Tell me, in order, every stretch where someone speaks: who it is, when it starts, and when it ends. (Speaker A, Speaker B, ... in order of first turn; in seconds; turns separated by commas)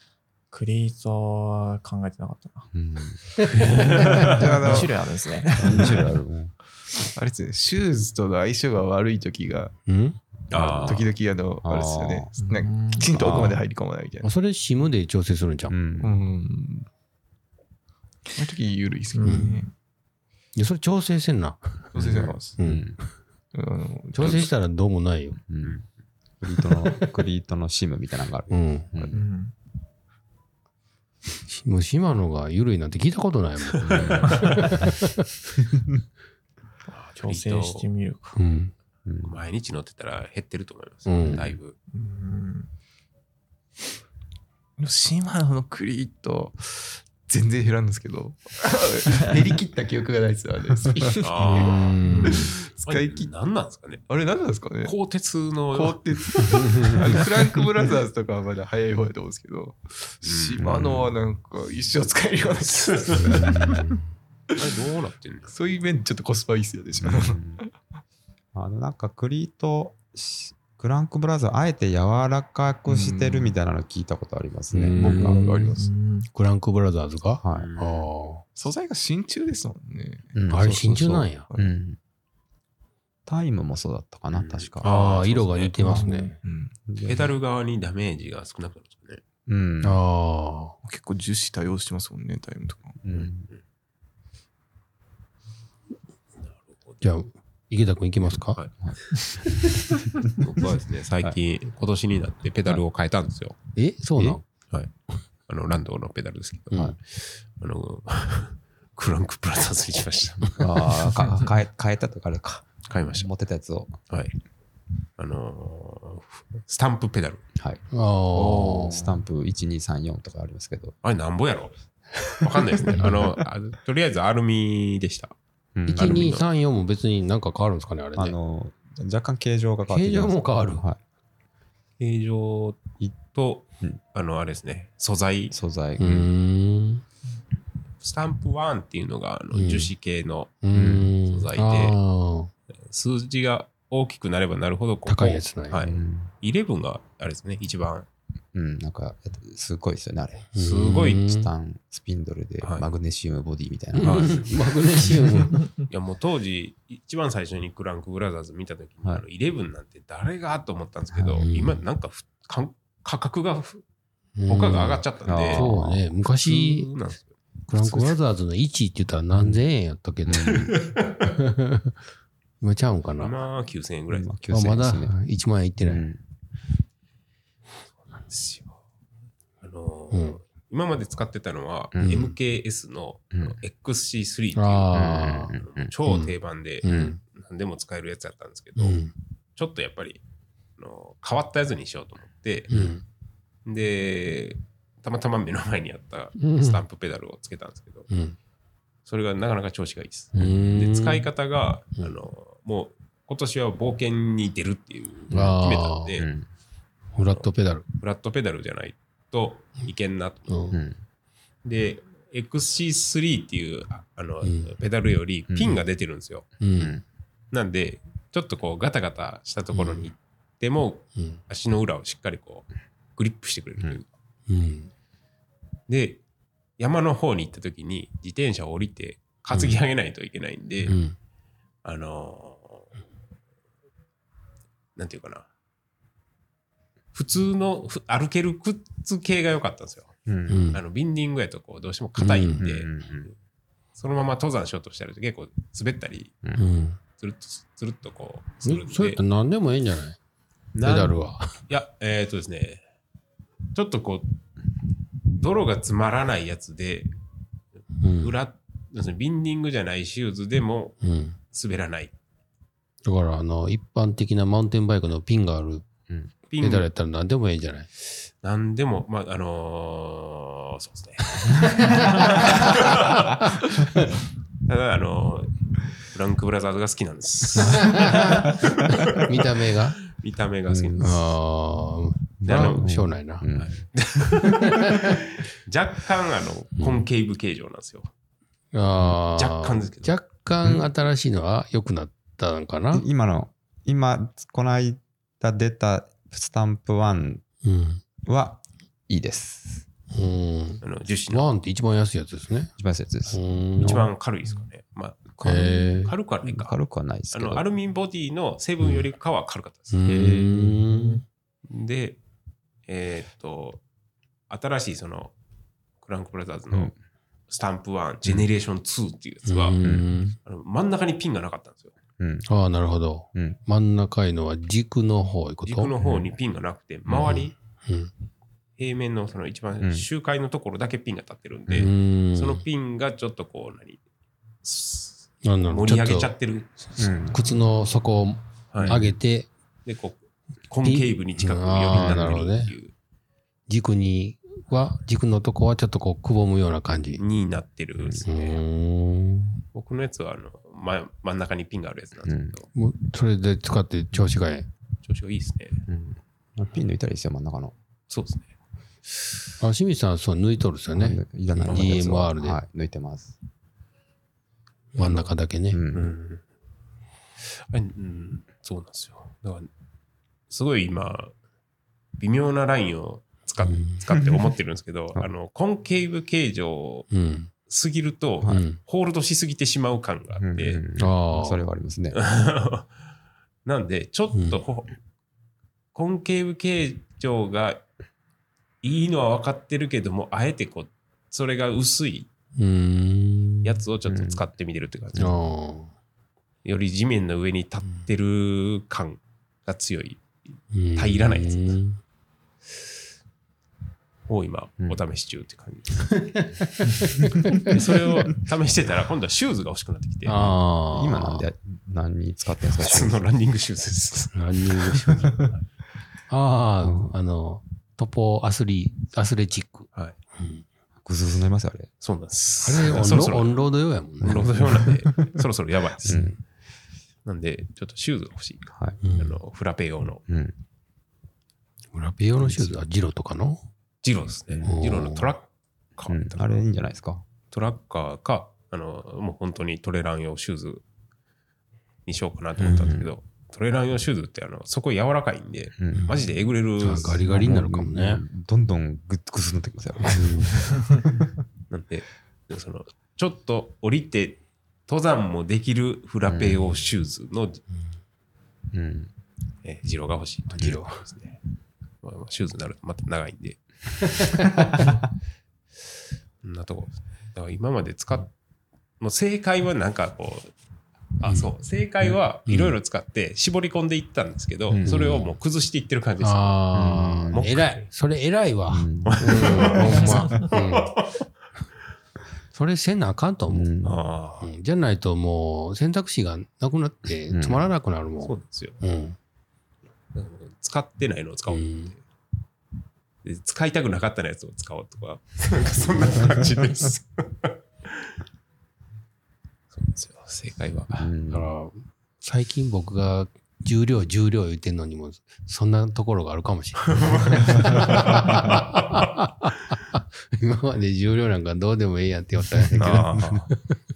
Speaker A: 0.5-2.7, Speaker B: 2.7-3.8, Speaker C: 3.4-4.2, Speaker D: 3.5-4.4, Speaker A: 3.6-5.9, Speaker E: 4.1-4.9, Speaker B: 5.5-6.5, Speaker E: 7.1-9.7, Speaker C: 9.8-10.2, Speaker D: 10.5-11.1, Speaker B: 10.5-11.1, Speaker E: 10.8-14.3, Speaker B: 11.6-12.3, Speaker A: 12.4-13.4, Speaker B: 13.1-13.6, Speaker C: 13.3-13.5, Speaker C: 14.2-15.7, Speaker B: 15.7-16.2, Speaker E: 16.0-16.9, Speaker E: 18.3-19.6, Speaker A: 19.1-19.7, Speaker C: 19.2-19.5, Speaker C: 20.6-21.9, Speaker E: 21.9-22.6, Speaker B: 21.9-23.0, Speaker C: 22.6-22.9, Speaker E: 23.5-24.5, Speaker C: 24.1-25.4, Speaker B: 25.5-25.8, Speaker B: 26.4-29.2, Speaker C: 28.5-28.9, Speaker A: 29.1-29.5, Speaker C: 31.4-35.3, Speaker D: 33.7-34.6, Speaker B: 33.8-34.8, Speaker D: 36.9-37.9, Speaker A: 37.2-38.4, Speaker C: 38.3-38.7, Speaker B: 39.0-39.4, Speaker D: 39.2-41.8, Speaker C: 41.0-41.5, Speaker A: 41.9-42.7, Speaker E: 44.8-53.3, Speaker D: 51.2-51.9, Speaker C: 51.4-52.5, Speaker A: 52.0-52.4, Speaker D: 52.6-54.1, Speaker E: 54.1-54.9, Speaker D: 54.8-56.3, Speaker E: 55.7-63.8, Speaker C: 56.5-57.2, Speaker D: 60.2-60.7, Speaker B: 60.6-61.1, Speaker D: 62.6-63.6, Speaker C: 63.3-64.0, Speaker D: 64.5-65.5, Speaker E: 65.5-67.7, Speaker B: 67.0-67.6, Speaker B: 68.5-75.4, Speaker E: 72.9-73.5, Speaker C: 74.7-75.5, Speaker E: 75.0-75.9, Speaker A: 75.0-76.3, Speaker C: 76.3-78.4, Speaker B: 77.4-77.7, Speaker D: 77.5-78.1, Speaker E: 78.5-80.8, Speaker B: 80.3-82.0, Speaker C: 80.5-81.5, Speaker B: 83.2-84.9, Speaker D: 84.3-85.8, Speaker C: 84.8-86.3, Speaker E: 85.8-86.7, Speaker B: 86.9-87.3, Speaker D: 87.0-89.2, Speaker B: 89.5-90.0, Speaker C: 89.8-90.8, Speaker E: 90.8-93.0, Speaker B: 93.0-93.5, Speaker D: 93.1-93.6, Speaker C: 97.0-98.6, Speaker D: 98.5-98.8, Speaker D: 100.4-103.5, Speaker C: 103.8-104.4, Speaker D: 105.5-110.6, Speaker B: 110.5-114.0, Speaker D: 112.8-113.3, Speaker D: 114.1-114.3, Speaker D: 115.2-117.4, Speaker B: 117.5-117.8, Speaker C: 117.9-119.2, Speaker B: 118.3-120.9, Speaker D: 121.0-121.7, Speaker D: 122.2-125.3, Speaker B: 122.9-123.3, Speaker B: 125.8-126.4, Speaker C: 125.9-128.3, Speaker D: 125.9-126.4, Speaker B: 128.1-131.0, Speaker C: 129.9-130.8, Speaker D: 132.0-135.5, Speaker B: 135.5-136.3, Speaker C: 136.0-137.0, Speaker D: 138.0-140.6, Speaker C: 139.5-139.9, Speaker C: 140.6-142.5, Speaker B: 140.7-141.1, Speaker D: 141.2-142.0, Speaker D: 142.8-148.1, Speaker C: 145.1-145.8, Speaker B: 145.7-146.3, Speaker B: 148.5-150.6, Speaker D: 150.6-151.3, Speaker C: 150.6-151.5, Speaker B: 151.1-154.4, Speaker D: 152.6-152.9, Speaker C: 153.9-155.6, Speaker D: 154.0-154.8, Speaker D: 155.9-163.8, Speaker C: 161.1-161.8, Speaker C: 164.3-166.9, Speaker D: 164.5-165.7, Speaker B: 165.2-166.0, Speaker D: 166.3-168.2, Speaker C: 167.7-170.8, Speaker B: 169.3-169.6, Speaker B: 170.2-170.8, Speaker D: 170.5-171.2, Speaker C: 171.3-171.9, Speaker C: 172.6-173.3, Speaker D: 173.2-174.3, Speaker B: 174.1-175.2, Speaker C: 174.5-176.1, Speaker B: 175.8-176.2, Speaker D: 178.3-178.8, Speaker D: 179.6-189.0, Speaker C: 180.1-180.4, Speaker B: 181.9-182.3, Speaker C: 182.0-182.3, Speaker C: 184.6-185.5, Speaker B: 184.9-185.9, Speaker C: 186.1-187.2, Speaker B: 186.8-187.2, Speaker C: 188.8-189.1, Speaker D: 189.6-190.2, Speaker D: 190.8-192.7, Speaker B: 192.7-192.9, Speaker C: 192.7-193.0, Speaker D: 193.7-198.1, Speaker C: 196.4-196.8, Speaker C: 198.1-198.3, Speaker D: 199.1-206.3, Speaker C: 200.3-201.3, Speaker C: 205.3-206.1, Speaker B: 206.2-206.5, Speaker C: 207.1-207.8, Speaker D: 207.3-210.6, Speaker C: 210.5-210.8, Speaker B: 210.7-211.0, Speaker D: 211.6-216.5, Speaker C: 214.4-214.7, Speaker B: 215.5-215.8, Speaker C: 216.6-216.9, Speaker B: 216.8-217.0, Speaker D: 217.5-224.1, Speaker C: 219.7-220.0, Speaker C: 224.5-224.9, Speaker D: 225.9-226.2, Speaker D: 226.8-230.9, Speaker C: 229.5-229.8, Speaker C: 230.9-231.2, Speaker D: 231.8-232.8, Speaker D: 234.9-235.5, Speaker D: 237.1-240.1, Speaker B: 240.2-240.7, Speaker C: 240.5-240.8, Speaker D: 240.7-243.3, Speaker C: 242.2-242.7, Speaker B: 242.6-243.3, Speaker D: 243.9-246.4, Speaker C: 246.6-247.0, Speaker D: 247.2-249.2, Speaker C: 248.6-250.2, Speaker D: 250.7-251.2, Speaker C: 250.8-251.6, Speaker D: 251.7-252.8, Speaker D: 253.7-254.3, Speaker D: 255.3-257.1, Speaker C: 258.0-258.3, Speaker D: 258.2-261.0, Speaker C: 261.0-261.4, Speaker D: 261.5-262.1, Speaker C: 263.1-265.8, Speaker D: 266.5-266.9, Speaker C: 266.6-267.9, Speaker D: 268.2-273.6, Speaker C: 271.4-274.1, Speaker D: 274.6-281.1, Speaker C: 277.6-280.0, Speaker B: 280.7-281.2, Speaker C: 281.0-283.4, Speaker B: 282.4-284.4, Speaker D: 282.4-282.8, Speaker D: 283.5-288.1, Speaker C: 284.5-285.2, Speaker C: 288.7-293.0, Speaker D: 289.3-290.1, Speaker B: 292.9-297.4, Speaker C: 297.6-298.0, Speaker B: 298.2-299.9, Speaker C: 300.1-302.7, Speaker D: 300.8-301.5, Speaker B: 302.8-304.1, Speaker C: 303.3-304.1, Speaker D: 303.8-305.3, Speaker B: 305.3-307.6, Speaker C: 305.4-306.1, Speaker D: 306.0-306.7, Speaker D: 307.3-310.0, Speaker C: 309.9-311.2, Speaker B: 310.1-310.9, Speaker D: 311.7-312.2, Speaker D: 312.9-313.8, Speaker D: 314.5-315.3, Speaker D: 316.0-316.9, Speaker D: 317.5-319.8, Speaker C: 319.4-320.4, Speaker B: 319.8-320.1, Speaker D: 320.4-321.9, Speaker B: 322.2-322.5, Speaker C: 322.5-325.9, Speaker D: 325.6-327.5, Speaker B: 326.0-326.3, Speaker B: 327.1-327.5, Speaker C: 327.8-328.1, Speaker D: 328.8-334.0, Speaker B: 329.8-330.1, Speaker C: 331.7-332.6, Speaker D: 334.6-337.1, Speaker C: 335.4-336.3, Speaker B: 337.0-337.4, Speaker C: 337.3-339.5, Speaker D: 338.7-339.0, Speaker B: 338.8-339.1, Speaker D: 339.9-342.9, Speaker C: 340.8-342.7, Speaker C: 343.7-347.2, Speaker D: 347.2-348.6, Speaker B: 348.0-348.2, Speaker C: 348.2-349.6, Speaker D: 349.7-352.7, Speaker B: 352.2-352.6, Speaker C: 352.7-354.7, Speaker D: 355.0-355.8, Speaker B: 355.9-357.7, Speaker D: 358.1-358.5, Speaker D: 359.1-359.4, Speaker C: 359.6-362.6, Speaker B: 360.9-363.4, Speaker D: 361.6-362.1, Speaker C: 364.9-365.8, Speaker D: 365.0-365.3, Speaker B: 365.7-366.0, Speaker D: 365.9-366.4, Speaker D: 367.4-369.7, Speaker D: 370.5-371.3, Speaker D: 372.2-377.1, Speaker C: 373.6-374.0, Speaker B: 374.1-374.4, Speaker C: 377.1-377.5, Speaker D: 377.7-380.8, Speaker C: 378.4-378.8, Speaker B: 380.4-382.2, Speaker C: 380.9-381.6, Speaker D: 382.1-382.9, Speaker D: 383.6-384.9, Speaker D: 385.9-387.8, Speaker D: 388.8-392.3, Speaker C: 392.6-393.8, Speaker D: 393.6-395.3, Speaker B: 394.1-394.4, Speaker C: 395.2-395.9, Speaker D: 396.6-400.2, Speaker C: 400.7-402.0, Speaker D: 400.9-401.8, Speaker D: 404.3-406.4, Speaker C: 406.1-407.7, Speaker D: 407.6-410.4, Speaker C: 410.2-411.4, Speaker B: 410.3-413.2, Speaker D: 412.7-415.6, Speaker C: 414.3-415.3, Speaker C: 416.3-420.6, Speaker B: 416.8-417.1, Speaker B: 421.0-421.9, Speaker D: 422.0-423.5, Speaker C: 422.6-424.7, Speaker D: 424.2-426.2, Speaker B: 424.2-425.3, Speaker B: 426.0-426.4, Speaker D: 427.2-430.2, Speaker B: 428.7-429.0, Speaker C: 429.0-429.4, Speaker B: 430.3-430.6, Speaker C: 431.9-433.6, Speaker B: 432.4-432.8, Speaker D: 434.0-436.6, Speaker B: 434.5-435.3, Speaker C: 434.6-435.2, Speaker B: 436.0-437.2, Speaker D: 437.5-440.8, Speaker D: 442.1-447.3, Speaker B: 442.6-443.1, Speaker B: 445.8-446.1, Speaker C: 445.9-446.2, Speaker C: 446.8-448.2, Speaker B: 447.2-451.3, Speaker C: 450.1-450.7, Speaker D: 451.7-457.6, Speaker B: 456.3-456.8, Speaker B: 458.7-459.1, Speaker D: 459.6-461.4, Speaker C: 460.5-461.0, Speaker D: 462.0-463.6, Speaker C: 464.2-464.9, Speaker D: 466.4-468.3, Speaker D: 469.0-470.5, Speaker D: 471.2-476.6, Speaker C: 471.2-471.5, Speaker C: 472.5-472.8, Speaker B: 474.7-475.3, Speaker C: 474.8-475.3, Speaker C: 476.2-480.9, Speaker B: 476.7-477.5, Speaker D: 477.3-477.9, Speaker B: 478.7-480.2, Speaker D: 479.0-481.2, Speaker C: 482.5-483.7, Speaker B: 483.5-484.0, Speaker D: 483.8-484.5, Speaker C: 484.4-489.1, Speaker B: 487.3-487.7, Speaker D: 488.2-488.8, Speaker D: 490.1-492.0, Speaker C: 491.5-491.9, Speaker D: 493.2-498.1, Speaker D: 499.7-501.1, Speaker B: 500.9-501.5, Speaker C: 501.3-513.2, Speaker D: 506.9-509.1, Speaker D: 512.8-513.5, Speaker B: 513.0-513.4